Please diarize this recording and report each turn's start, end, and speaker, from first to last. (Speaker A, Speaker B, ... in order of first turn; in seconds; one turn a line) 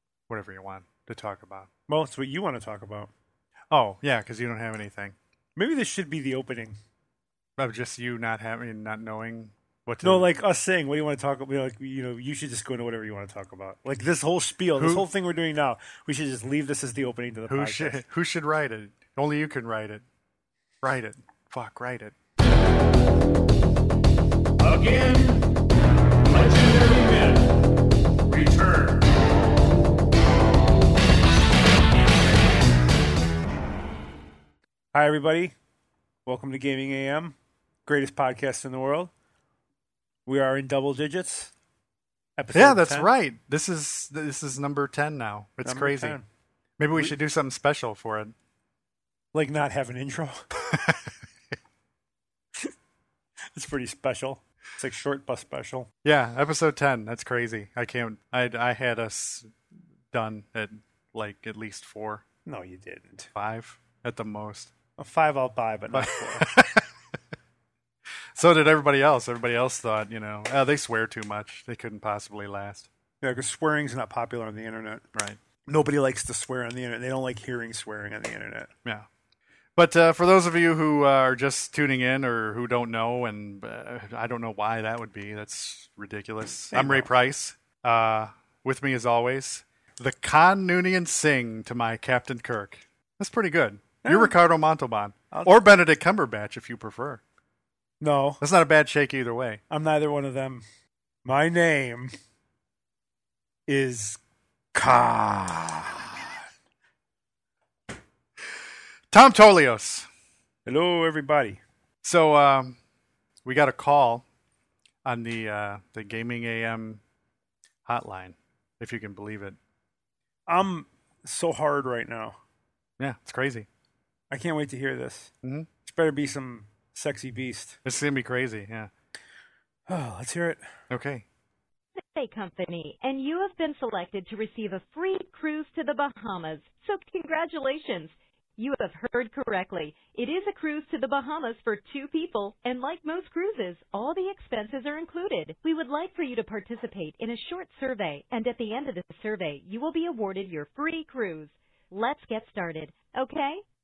Speaker A: 0.3-1.7
Speaker B: 1.9-3.1
Speaker A: 3.7-5.2
Speaker B: 5.6-6.8
Speaker A: 7.6-10.3
Speaker B: 10.0-18.0
Speaker A: 14.8-15.1
Speaker A: 17.5-20.0
Speaker A: 20.8-22.1
Speaker C: 24.6-25.5
Speaker C: 26.3-27.5
Speaker C: 28.3-29.1
Speaker B: 34.9-35.5
Speaker B: 36.3-39.1
Speaker B: 40.3-41.5
Speaker B: 42.4-43.1
Speaker A: 42.5-46.2
Speaker B: 45.6-46.2
Speaker A: 46.8-48.3
Speaker B: 49.3-50.5
Speaker A: 50.6-51.0
Speaker B: 53.5-55.9
Speaker A: 56.0-59.5
Speaker A: 60.1-62.2
Speaker B: 62.5-63.3
Speaker A: 63.4-64.7
Speaker B: 65.0-66.5
Speaker A: 65.9-66.8
Speaker A: 68.3-72.9
Speaker B: 73.2-75.1
Speaker A: 75.1-75.4
Speaker B: 75.7-78.7
Speaker A: 79.8-97.2
Speaker B: 86.7-87.1
Speaker B: 94.0-94.3
Speaker B: 98.0-98.4
Speaker A: 98.4-99.6
Speaker B: 99.7-100.6
Speaker B: 101.2-102.1
Speaker B: 103.7-104.2
Speaker B: 104.7-106.4
Speaker A: 109.1-110.1
Speaker B: 110.7-111.6
Speaker A: 112.0-112.8
Speaker A: 113.5-114.2
Speaker A: 115.0-117.0
Speaker A: 117.9-119.6
Speaker B: 120.5-122.4
Speaker A: 123.0-123.7
Speaker B: 124.3-125.3
Speaker A: 125.4-125.7
Speaker B: 125.8-127.8
Speaker A: 127.8-128.9
Speaker B: 129.9-130.6
Speaker A: 130.9-131.2
Speaker D: 132.0-153.6